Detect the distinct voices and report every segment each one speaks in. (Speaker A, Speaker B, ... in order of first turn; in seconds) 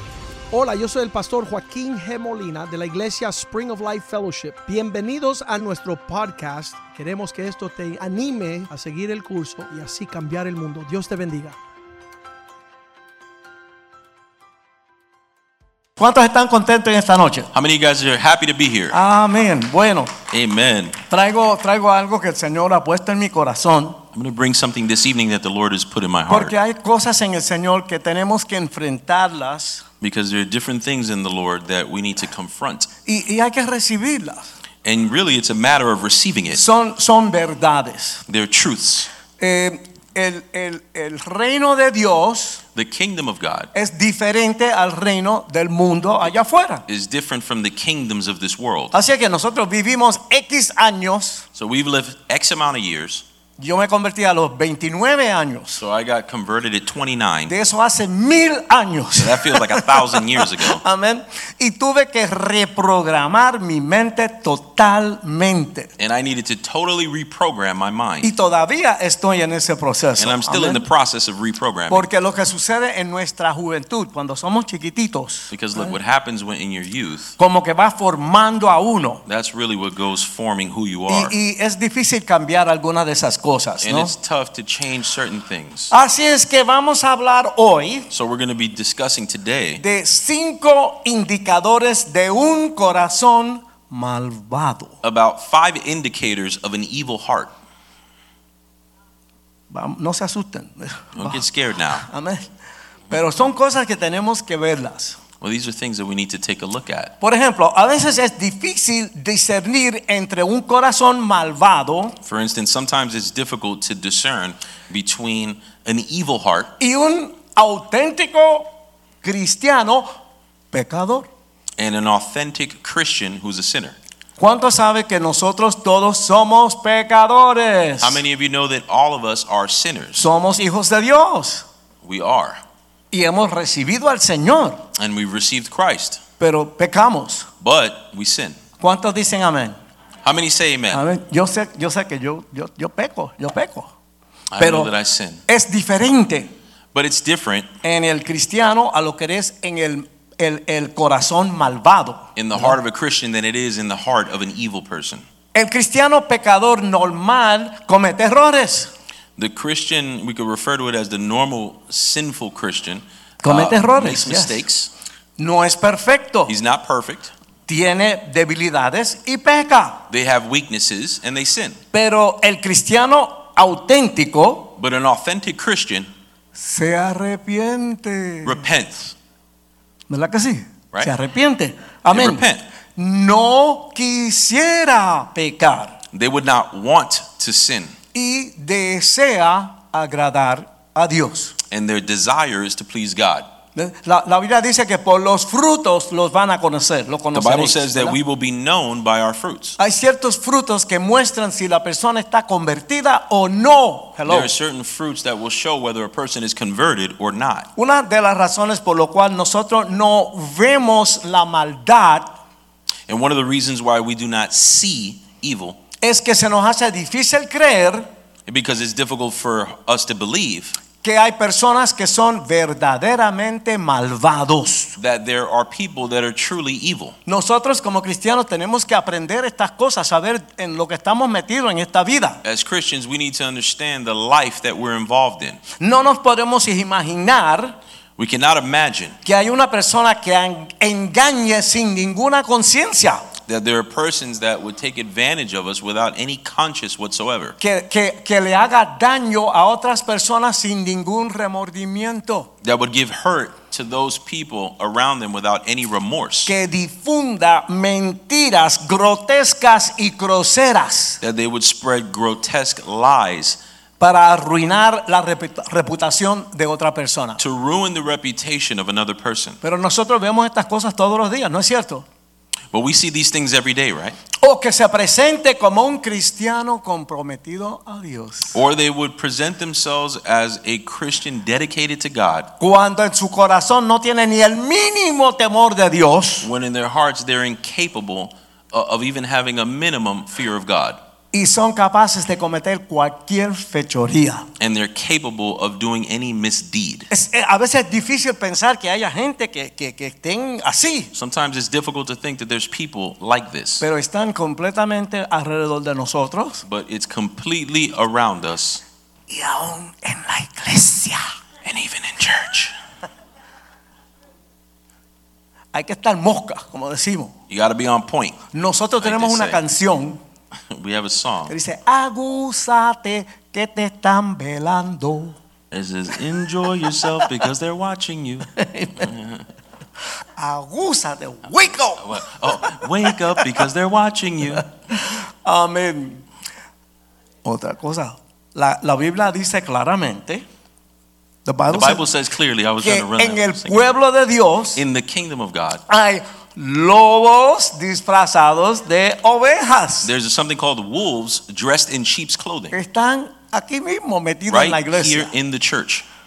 Speaker A: 0.5-11.6
Speaker B: 16.0-17.5, 18.9-20.1, 21.1-24.0, 26.3-29.9, 33.0-34.5, 36.5-38.2, 39.4-42.6, 43.7-46.8, 48.9-51.5, 53.6-55.8, 57.5-65.9, 68.2-70.8, 71.9-75.9, 77.4-79.2, 81.1-84.1, 85.9-88.1, 89.8-95.0, 99.7-101.4, 102.0-102.5, 103.1-105.2, 107.2-112.2, 116.8-118.7, 119.2-120.1, 120.7-121.3, 124.4-128.2, 130.1-131.6, 133.1-134.8, 136.4-137.5, 138.8-139.8, 140.9-143.9, 144.6-144.9, 145.5-146.5, 147.8-152.7, 155.5-158.9, 163.4-164.6, 165.4-166.5, 167.7-170.0, 171.9-174.7, 176.5-178.6, 180.1-185.9, 188.1-191.6, 193.8-198.2, 199.8-204.5, 207.8-212.3, 216.0-218.1, 221.0-224.9, 227.2-232.4, 235.8-237.8, 239.2-243.2, 247.6-252.5, 256.4-261.2, 264.0-267.4, 269.6-272.1, 274.4-278.6, 282.6-286.5, 291.3-294.5, 297.1-301.1, 303.8-306.6, 309.3-311.3, 315.7-317.3, 318.5-320.2, 321.5-325.4, 328.6-329.1, 330.4-333.4, 334.9-336.2, 337.4-340.4, 341.4-342.0, 342.8-344.8, 345.9-350.1, 352.7-355.3
Speaker C: 17.5-19.0, 20.3-21.0, 24.1-26.5, 30.0-32.9, 34.8-36.6, 38.3-39.1, 42.7-43.7, 46.9-48.9, 51.5-53.2, 55.8-57.5, 59.2-60.8, 66.0-68.3, 70.2-72.1, 75.5-77.4, 79.3-81.3, 83.8-85.9, 88.1-89.8, 95.0-97.5, 101.2-102.1, 105.4-107.1, 112.2-116.7, 121.8-124.0, 128.0-130.2, 132.0-132.6, 134.9-136.2, 137.6-138.6, 140.2-141.0, 144.5-145.4, 146.9-147.7, 152.3-155.2, 159.4-164.9, 166.4-167.3, 170.1-171.8, 174.8-176.1, 178.4-179.1, 182.1-182.6, 186.1-187.9, 191.7-193.5, 197.3-199.8, 204.2-207.7, 213.1-215.8, 218.5-220.8, 225.0-227.2, 232.4-235.6, 238.2-239.2, 243.4-247.6, 252.6-256.5, 261.2-263.6, 267.4-269.6, 272.7-274.2, 278.5-282.5, 286.4-291.0, 294.6-297.1, 301.1-303.8, 306.6-308.8, 311.6-312.8, 317.5-318.4, 319.0-319.6, 320.7-321.5, 325.7-329.5, 332.0-334.6, 341.7-343.9, 344.8-345.8, 350.0-352.8, 354.5-356.1